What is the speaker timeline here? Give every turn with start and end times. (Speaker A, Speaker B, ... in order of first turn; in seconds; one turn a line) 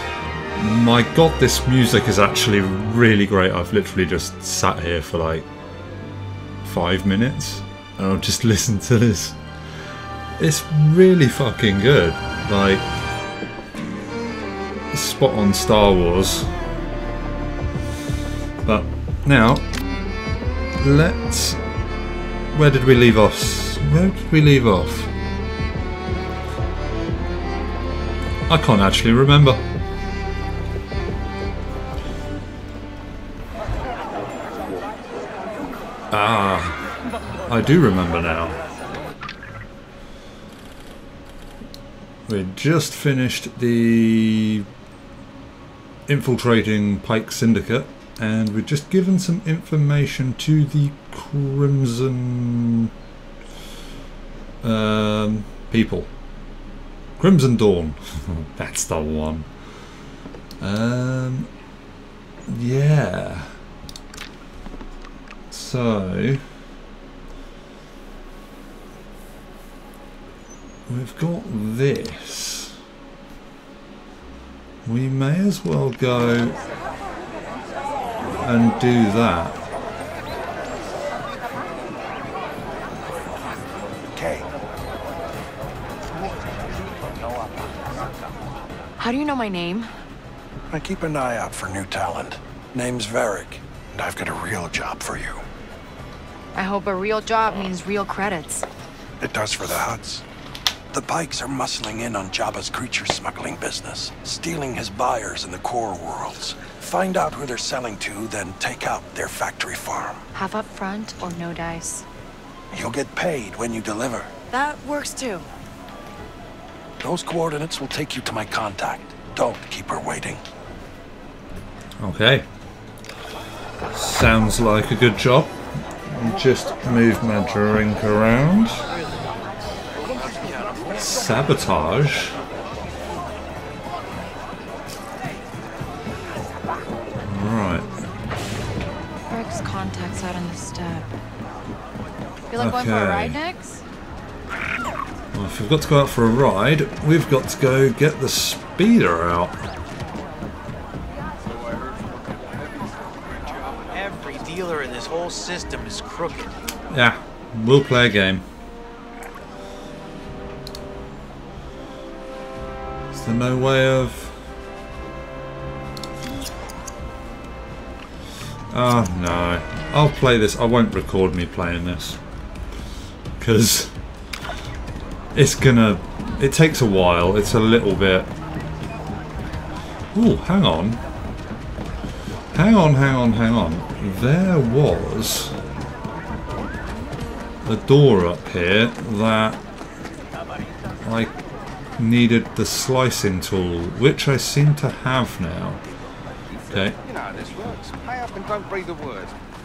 Speaker A: 0.6-5.5
Speaker A: 6.6-9.4
Speaker A: 10.4-12.8
Speaker A: 14.9-16.5
Speaker A: 18.6-19.6
Speaker A: 20.8-21.6
Speaker A: 22.5-25.1
Speaker A: 28.5-29.6
Speaker A: 36.1-36.8
Speaker A: 37.5-38.6
Speaker A: 42.3-44.6
Speaker A: 46.1-52.9
Speaker A: 54.6-56.1
Speaker A: 57.2-59.5
Speaker A: 60.6-61.5
Speaker A: 62.5-63.5
Speaker A: 65.5-66.4
Speaker A: 70.9-72.8
Speaker A: 74.8-76.6
Speaker A: 78.2-79.6
Speaker B: 84.1-84.5
Speaker C: 89.0-89.9
Speaker B: 90.7-95.4
Speaker C: 96.5-98.7
Speaker B: 99.2-100.2
Speaker B: 100.9-110.2
Speaker C: 110.3-112.0
Speaker B: 112.7-114.3
Speaker C: 114.5-115.5
Speaker B: 117.0-120.4
Speaker A: 122.0-122.5
Speaker A: 123.9-125.5
Speaker A: 126.1-128.9
Speaker A: 130.9-132.3
Speaker A: 137.2-137.9
Speaker C: 139.3-141.1
Speaker C: 142.5-143.8
Speaker A: 142.6-143.4
Speaker A: 145.3-149.6
Speaker D: 153.9-156.6
Speaker A: 156.9-158.4
Speaker A: 163.1-164.3
Speaker A: 168.7-172.2
Speaker A: 173.4-173.9
Speaker A: 175.3-178.3
Speaker A: 180.1-181.0
Speaker A: 182.5-185.5
Speaker A: 187.7-189.6
Speaker A: 191.0-191.3
Speaker A: 192.0-195.8
Speaker A: 196.7-196.9
Speaker E: 196.7-199.3